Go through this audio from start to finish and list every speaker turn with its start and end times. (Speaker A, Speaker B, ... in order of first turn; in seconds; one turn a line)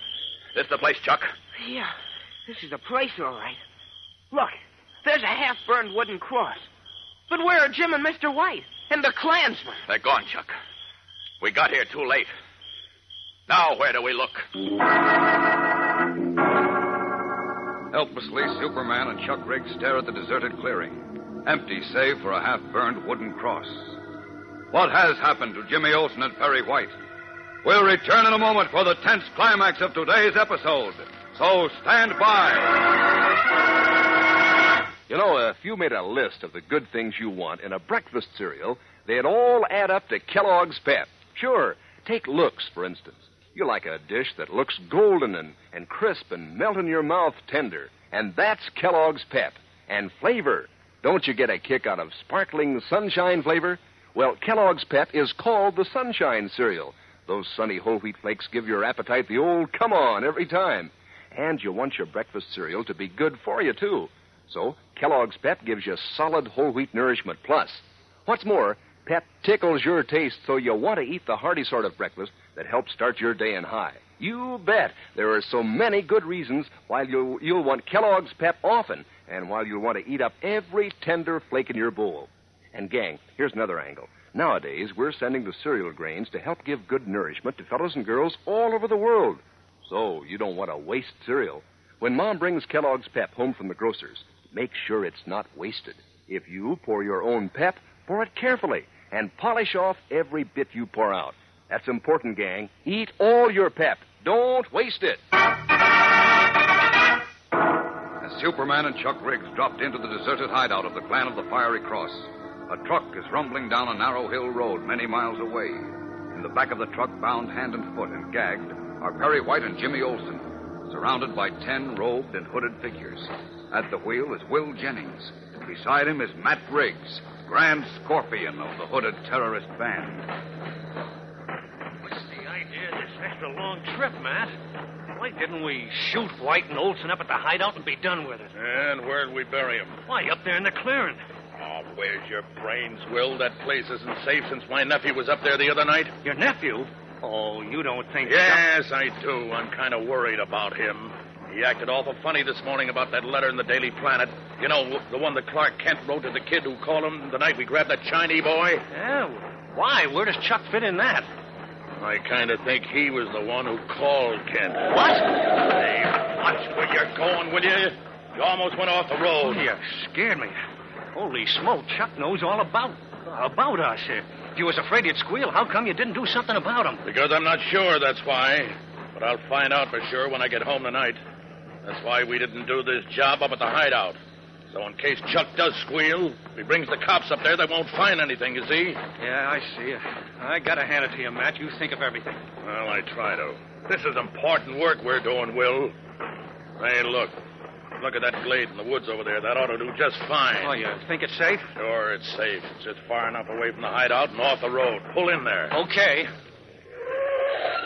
Speaker A: 0.5-1.3
Speaker B: 1.6-1.9
Speaker B: 2.5-3.6
Speaker B: 4.3-6.7
Speaker B: 7.3-9.8
Speaker A: 9.9-10.5
Speaker A: 11.4-12.3
Speaker A: 13.5-14.5
Speaker C: 17.9-24.0
Speaker C: 24.7-27.0
Speaker C: 27.6-32.8
Speaker D: 35.1-105.2
Speaker C: 108.2-130.3
Speaker E: 132.0-134.6
Speaker E: 135.1-138.5
Speaker F: 138.5-140.0
Speaker E: 140.1-141.2
Speaker F: 141.6-146.2
Speaker E: 146.2-148.7
Speaker F: 148.2-158.8
Speaker E: 158.9-161.3
Speaker F: 162.0-169.6
Speaker E: 164.9-165.2
Speaker E: 169.4-170.6
Speaker E: 171.1-177.0
Speaker F: 177.1-181.2
Speaker F: 181.8-184.2
Speaker F: 184.7-189.0
Speaker E: 189.2-192.4
Speaker F: 192.6-195.9
Speaker F: 196.8-197.4
Speaker F: 198.0-200.7
Speaker E: 200.6-201.7
Speaker F: 201.8-205.8
Speaker E: 205.7-206.3